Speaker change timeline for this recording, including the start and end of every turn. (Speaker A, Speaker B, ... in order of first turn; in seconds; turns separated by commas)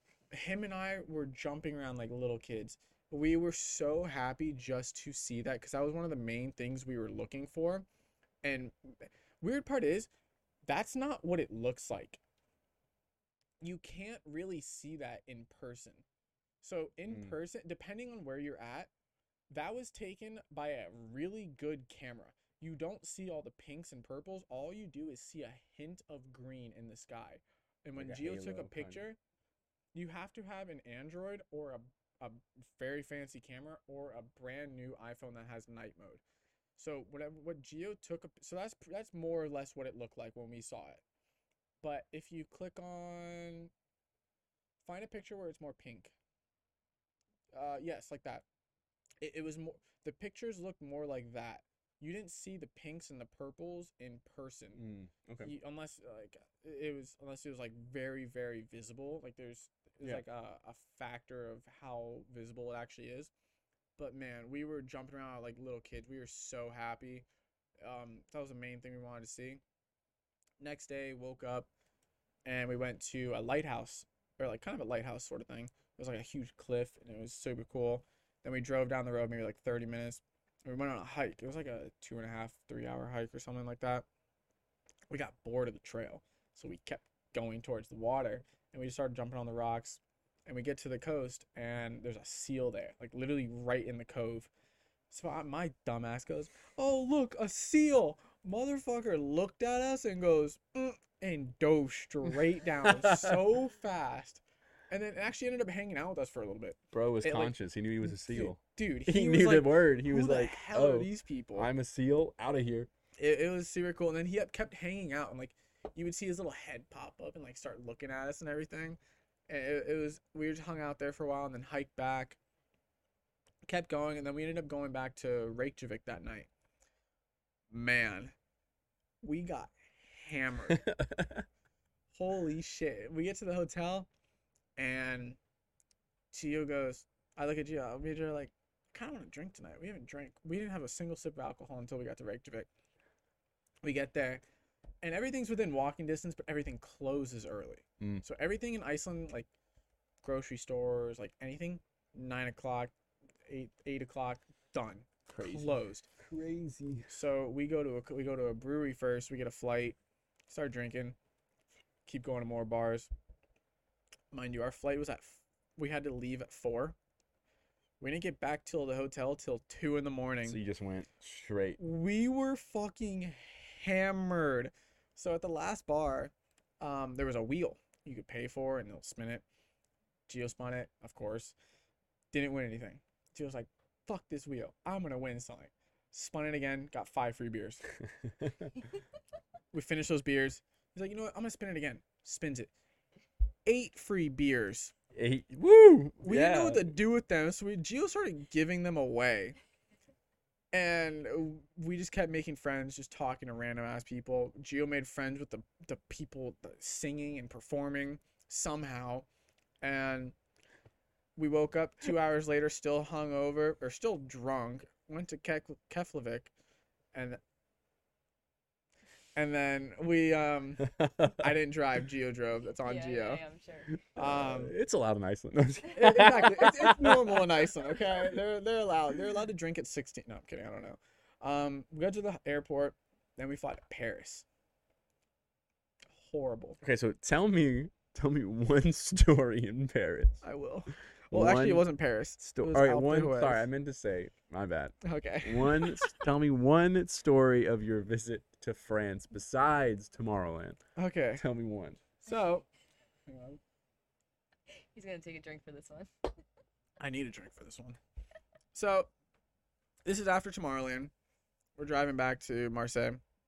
Speaker A: 0.3-7.9, Speaker A: 8.4-10.1, Speaker A: 10.7-12.2, Speaker A: 13.6-16.1, Speaker A: 16.6-18.9, Speaker B: 17.1-17.3, Speaker A: 19.5-29.2, Speaker B: 27.9-29.1, Speaker A: 29.9-36.2, Speaker A: 36.8-41.0, Speaker A: 41.8-43.7, Speaker A: 44.8-46.1, Speaker A: 47.5-48.5, Speaker A: 49.2-54.8, Speaker B: 54.7-55.5, Speaker A: 55.4-63.3, Speaker A: 64.0-67.2, Speaker A: 67.8-69.6, Speaker A: 70.6-71.7, Speaker A: 72.5-84.0, Speaker A: 85.1-94.5, Speaker A: 95.1-111.7, Speaker B: 102.8-103.3, Speaker B: 106.9-112.9, Speaker A: 113.2-122.4, Speaker A: 123.7-126.5, Speaker A: 127.7-128.3, Speaker A: 129.2-130.9, Speaker B: 130.7-131.4, Speaker A: 132.1-134.1, Speaker A: 134.8-135.4, Speaker A: 136.3-142.7, Speaker A: 143.8-144.4, Speaker A: 145.0-149.5, Speaker A: 150.2-152.9, Speaker A: 153.4-156.1, Speaker B: 155.3-157.1, Speaker A: 157.1-160.0, Speaker A: 160.5-161.2, Speaker A: 162.1-163.1, Speaker A: 164.3-166.9, Speaker A: 168.0-170.6, Speaker B: 170.4-171.8, Speaker A: 171.8-179.4, Speaker A: 180.3-181.5, Speaker A: 182.3-187.8, Speaker B: 188.0-188.7, Speaker A: 189.7-192.7, Speaker A: 193.6-194.9, Speaker B: 195.1-196.9, Speaker A: 196.2-199.6, Speaker A: 200.7-209.3, Speaker A: 209.8-210.3, Speaker A: 211.4-216.5, Speaker A: 217.1-217.4, Speaker A: 219.4-223.4, Speaker B: 220.9-221.5, Speaker C: 222.8-223.9, Speaker A: 224.1-224.7, Speaker B: 224.2-227.4, Speaker A: 225.9-234.4, Speaker B: 228.1-228.3, Speaker A: 236.2-236.8, Speaker B: 236.8-240.4, Speaker A: 240.4-243.7, Speaker B: 241.3-241.9, Speaker B: 242.4-250.8, Speaker A: 245.0-246.2, Speaker A: 250.9-251.4, Speaker B: 251.4-252.0, Speaker A: 252.2-252.6, Speaker A: 253.3-253.6, Speaker C: 254.9-256.3, Speaker A: 257.0-258.0, Speaker A: 258.7-259.1, Speaker A: 260.1-261.1, Speaker A: 261.8-263.2